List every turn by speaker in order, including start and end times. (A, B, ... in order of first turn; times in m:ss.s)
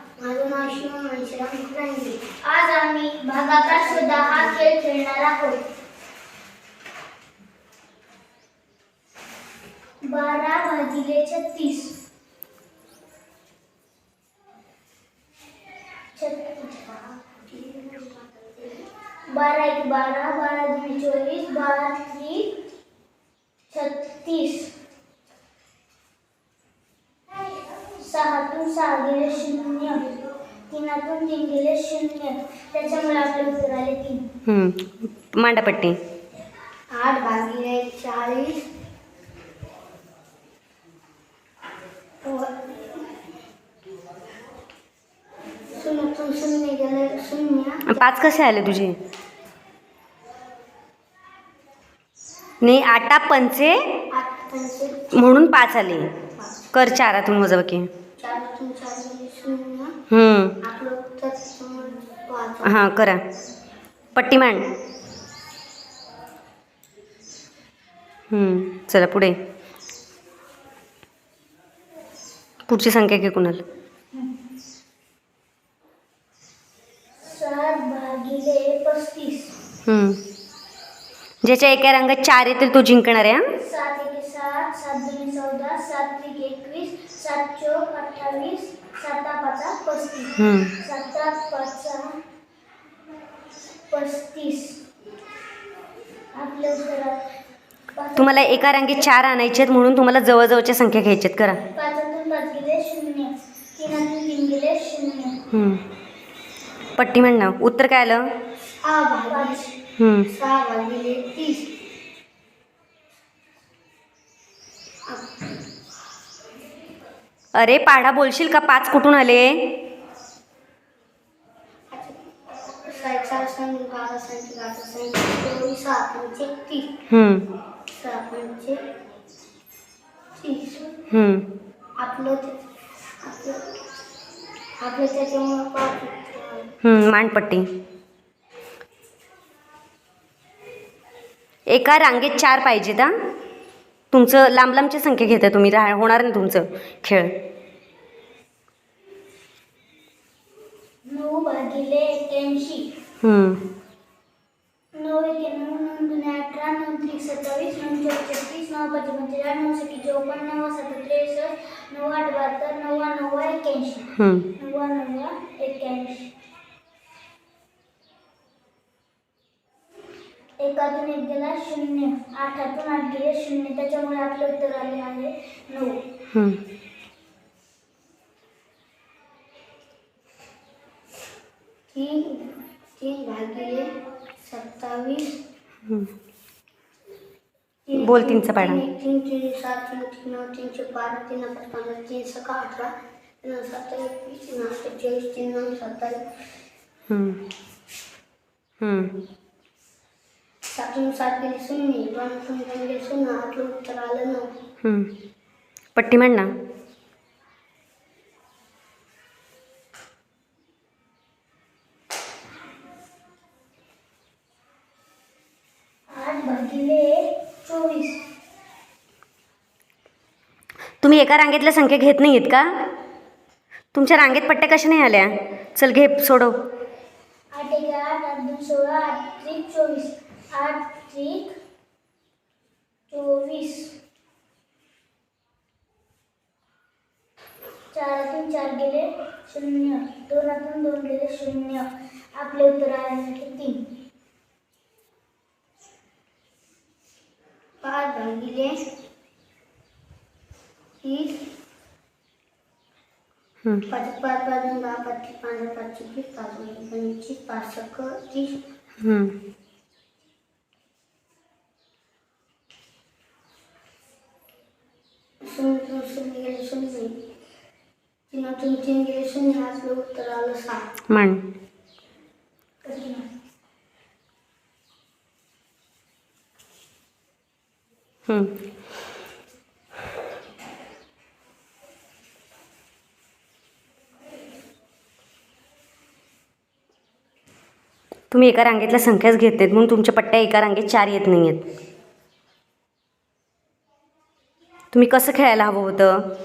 0:00.2-0:02.2 A
0:02.4-0:05.6 B
0:03.6-0:04.6 A
0:10.0-0:12.0 B
0:16.1-0:16.8 B
0:17.1-0:18.8 A
0:19.3-0:22.5 B
0:23.7-0:24.7 B
0:28.0-0:30.0 B
0:30.7-0:34.2 B
0:34.4-0:36.0 C
0:36.9-0:38.6 A
0:42.2-0:42.5 A
0:45.7-0:48.0 A
0:47.9-0:49.0 C
0:52.6-0:53.7 C
0:54.1-0:55.2 A
0:55.1-0:56.1 C
0:56.7-0:57.9 C
0:58.2-0:59.9 A
1:00.1-1:00.6 C
1:00.6-1:02.9 A
1:02.6-1:03.2 C
1:04.1-1:04.7 C
1:08.3-1:09.3 C
1:12.7-1:13.6 C
1:17.2-1:19.5 B
1:19.8-1:20.2 C
1:21.4-1:23.4 C
1:23.6-1:32.1 B
1:30.4-1:30.7 C
1:33.9-1:34.8 B
1:36.3-1:37.2 B
1:37.9-1:39.0 B
1:38.2-1:41.6 C
1:41.7-1:45.4 B
1:45.5-1:45.8 C
1:47.0-1:48.2 C
1:48.8-1:49.7 A
1:49.3-1:49.7 B
1:50.0-1:50.3 C
1:50.3-1:51.7 A
1:57.5-1:59.6 C
2:01.9-2:06.9 A
2:07.1-2:07.4 C
2:08.0-2:08.8 A
2:10.3-2:10.9 A
2:11.1-2:11.4 C
2:12.0-2:12.6 A
2:13.2-2:13.6 A
2:14.8-2:16.7 A
2:16.8-2:17.6 C
2:21.7-2:23.1 C
2:24.1-2:27.3 C
2:31.1-2:32.9 B
2:33.2-2:33.6 C
2:34.9-2:44.0 B
2:44.2-2:44.4 C
2:44.6-2:46.3 B
2:50.6-2:56.0 B
2:56.3-2:56.6 C
3:01.9-3:03.9 A
3:04.4-3:05.4 A
3:07.9-3:16.2 A
3:08.0-3:08.8 C
3:17.1-3:17.4 C
3:18.8-3:19.1 C
3:20.7-3:24.5 A
3:24.8-3:25.1 C
3:26.0-3:26.5 C
3:36.1-3:38.2 B
3:41.0-3:42.6 C
3:43.9-3:46.5 C
3:47.5-3:51.5 B
3:53.1-3:53.9 B
3:57.9-4:03.8 B
4:07.8-4:08.8 A
4:11.0-4:11.4 A
4:13.9-4:18.6 A
4:19.0-4:19.3 C
4:25.4-4:27.2 A
4:28.3-4:30.9 A
4:31.1-4:31.4 C
4:32.8-4:33.3 B
4:48.3-4:51.6 C
4:54.9-4:56.2 C